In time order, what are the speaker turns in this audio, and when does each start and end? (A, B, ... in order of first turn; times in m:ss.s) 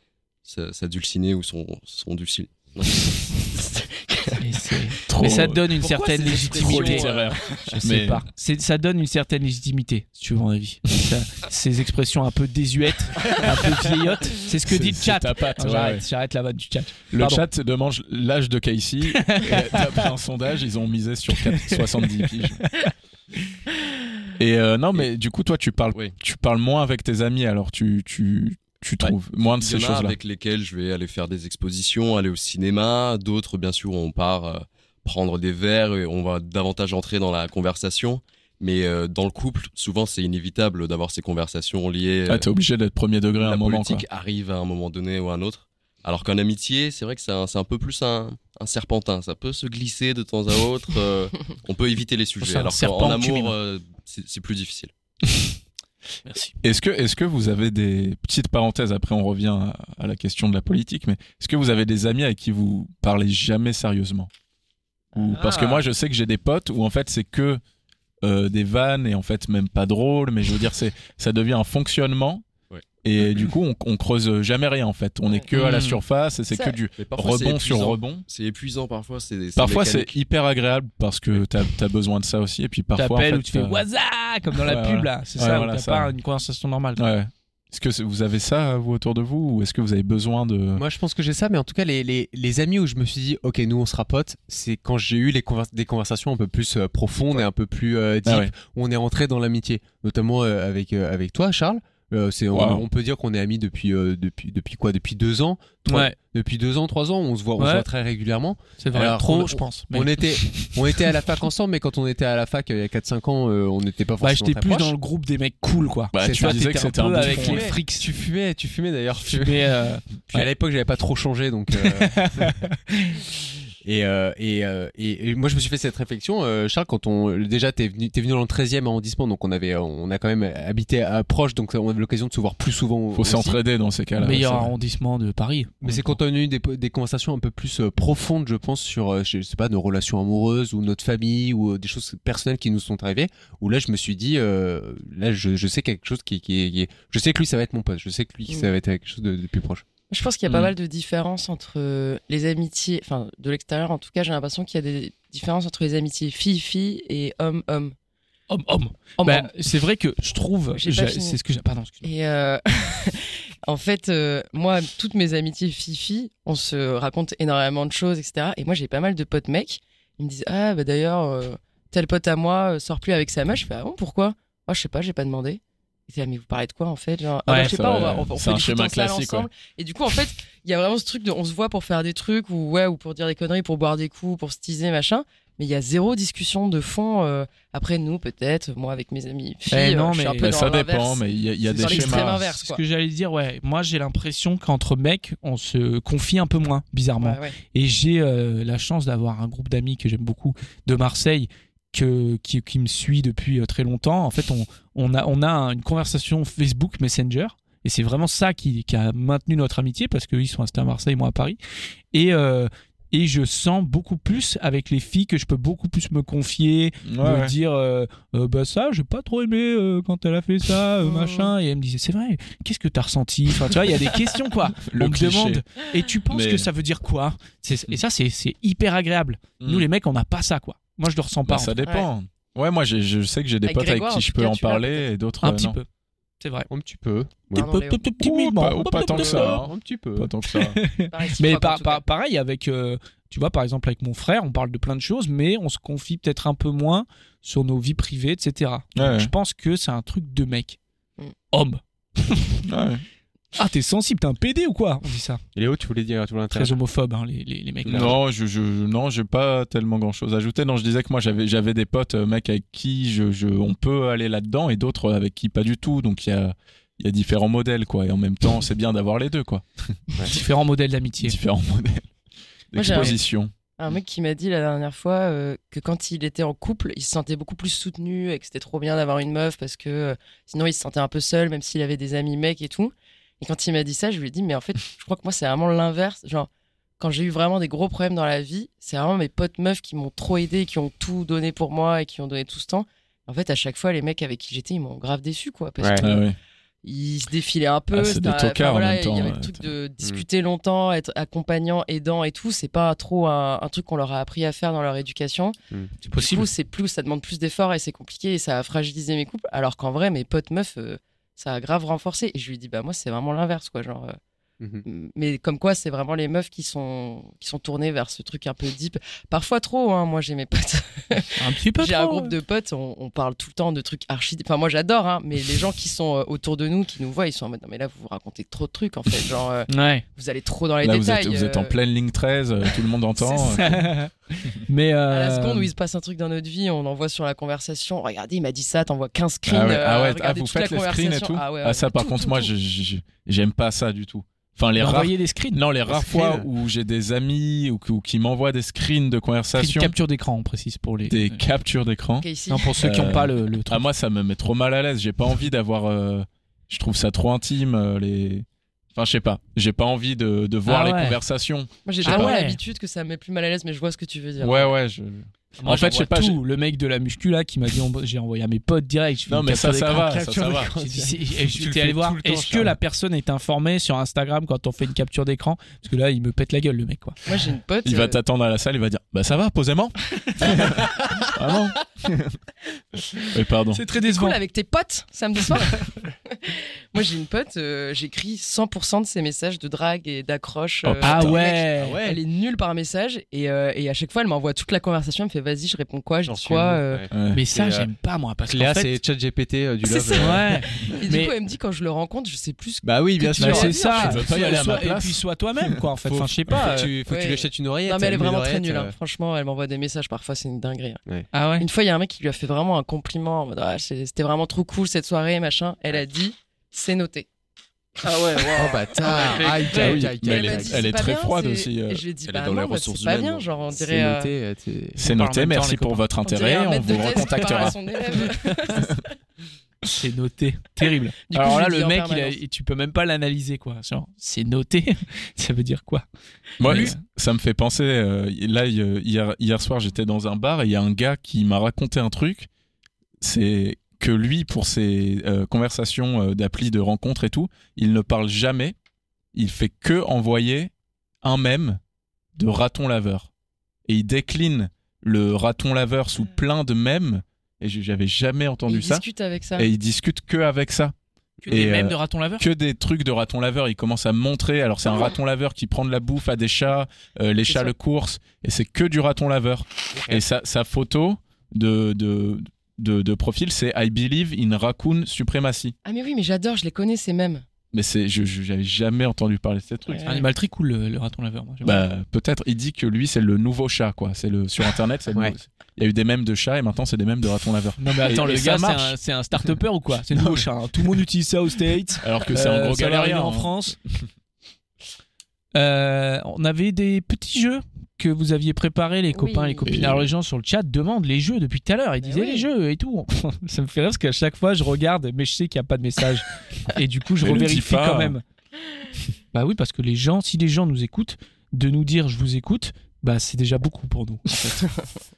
0:00.4-0:04.4 A
0:04.4-0:07.1 B
0:05.1-0:05.7 C
0:05.8-0:07.5 D
0:06.4-0:08.2 C
0:07.8-0:17.4 B
0:14.5-0:16.0 C
0:17.1-0:22.7 C
0:19.1-0:20.1 B
0:21.4-0:22.9 B
0:24.4-0:30.2 C
0:29.0-0:42.5 A
0:42.3-0:44.0 C
0:43.4-0:54.9 A
0:52.4-0:53.5 B
0:56.2-0:56.6 B
0:56.6-1:04.3 C
1:05.1-1:05.8 E
1:05.1-1:07.6 C
1:08.2-1:12.4 C
1:13.0-1:18.2 C
1:15.5-1:16.0 B
1:16.5-1:16.8 E
1:17.0-1:20.1 A
1:19.6-1:23.8 C
1:23.0-1:27.0 B
1:24.6-1:26.1 C
1:27.0-1:30.8 C
1:30.7-1:54.9 D
1:38.2-1:38.5 C
1:42.5-1:42.8 C
1:45.9-1:46.2 B
1:47.6-1:47.9 B
1:48.8-1:51.0 B
1:54.2-1:58.1 B
1:56.1-1:57.7 C
1:56.2-2:02.6 D
1:59.2-2:00.5 B
2:01.8-2:03.2 B
2:03.8-2:13.6 D
2:13.1-2:14.7 C
2:14.2-2:15.7 B
2:15.8-2:29.8 D
2:15.8-2:16.1 C
2:30.1-2:37.9 E
2:38.5-2:42.1 B
2:39.2-2:39.5 E
2:40.7-2:41.4 E
2:42.0-3:12.8 E
2:57.5-2:57.7 B
2:57.5-2:59.5 C
3:09.7-3:10.5 B
3:10.4-3:12.5 C
3:11.8-3:31.6 B
3:17.2-3:17.6 E
3:32.1-3:51.7 B
3:37.0-3:37.5 C
3:41.0-3:41.5 E
3:44.8-3:45.6 C
3:46.3-3:46.7 C
3:49.6-3:49.9 C
3:51.4-3:55.8 C
3:51.8-3:52.1 E
3:53.6-3:55.1 E
3:55.4-3:55.9 B
3:56.4-3:56.7 B
3:56.7-3:57.7 D
3:57.5-3:59.6 B
3:57.5-3:58.1 E
3:58.2-4:00.8 C
3:58.9-4:00.3 D
4:00.5-4:10.8 B
4:01.0-4:02.0 E
4:09.0-4:09.3 C
4:11.5-4:12.6 B
4:12.6-4:13.0 C
4:13.5-4:15.4 B
4:15.5-4:16.8 D
4:16.5-4:18.1 B
4:17.8-4:18.2 D
4:17.9-4:30.4 C
4:30.2-4:31.4 B
4:31.2-4:32.1 C
4:32.7-4:33.5 C
4:32.7-4:33.2 E
4:33.8-4:46.5 E
4:47.0-4:56.2 E
4:56.0-4:56.3 C
4:56.8-5:05.6 E
4:57.9-4:59.7 C
5:06.0-5:06.5 B
5:06.2-5:14.2 E
5:14.6-5:14.8 D
5:14.8-5:31.8 E
5:21.4-5:22.3 B
5:29.7-5:30.0 B
5:30.8-5:33.8 C
5:33.2-5:33.8 E
5:33.5-5:35.7 B
5:35.1-5:42.5 E
5:39.5-5:49.9 C
5:44.8-5:45.6 B
5:45.9-5:46.5 D
5:49.6-5:51.4 B
5:51.1-5:52.3 C
5:52.2-5:52.7 E
5:52.5-5:53.8 B
5:52.8-6:02.3 C
6:00.7-6:01.2 B
6:01.8-6:04.7 E
6:02.0-6:02.6 B
6:04.4-6:06.4 C
6:05.6-6:17.2 B
6:09.3-6:10.7 C
6:10.1-6:12.8 D
6:17.2-6:18.2 E
6:17.8-6:22.4 C
6:23.3-6:23.8 C
6:23.7-6:24.4 B
6:23.9-6:37.0 E
6:30.8-6:31.4 C
6:31.0-6:32.0 B
6:31.8-6:32.2 D
6:36.2-6:37.9 D
6:37.1-6:37.4 C
6:37.3-6:39.0 B
6:38.5-6:40.5 D
6:39.8-6:44.9 E
6:40.2-6:41.3 B
6:42.8-6:43.8 D
6:43.3-6:46.9 B
6:43.4-6:45.2 C
6:46.0-6:48.9 D
6:47.0-6:51.0 E
6:51.3-6:51.7 B
6:51.6-6:57.3 E
6:58.1-7:00.1 B
6:58.4-7:00.9 D
6:59.0-7:04.3 E
6:59.7-7:02.0 C
7:02.2-7:03.5 A
7:03.7-7:05.0 D
7:05.0-7:06.0 B
7:05.0-7:07.8 C
7:06.2-7:09.0 E
7:10.0-7:16.0 B
7:11.3-7:12.4 E
7:16.6-7:22.5 C
7:16.6-7:17.0 B
7:16.6-7:16.9 E
7:23.2-7:28.8 C
7:29.3-7:30.7 C
7:31.2-7:31.8 C
7:32.3-7:33.3 C
7:33.9-7:39.0 C
7:38.7-7:39.7 E
7:39.6-7:40.9 C
7:41.4-7:42.4 B
7:41.5-7:55.7 C
7:47.4-7:47.7 E
7:50.0-7:50.2 D
7:55.8-7:57.4 E
7:57.7-8:00.1 C
7:59.8-8:00.3 E
8:00.0-8:01.8 B
8:01.6-8:09.0 C
8:07.8-8:13.8 B
8:10.2-8:10.4 C
8:12.0-8:13.5 C
8:15.5-8:28.2 B
8:19.1-8:19.7 E
8:19.6-8:20.1 C
8:22.0-8:22.5 E
8:27.2-8:28.2 C
8:29.3-8:34.6 B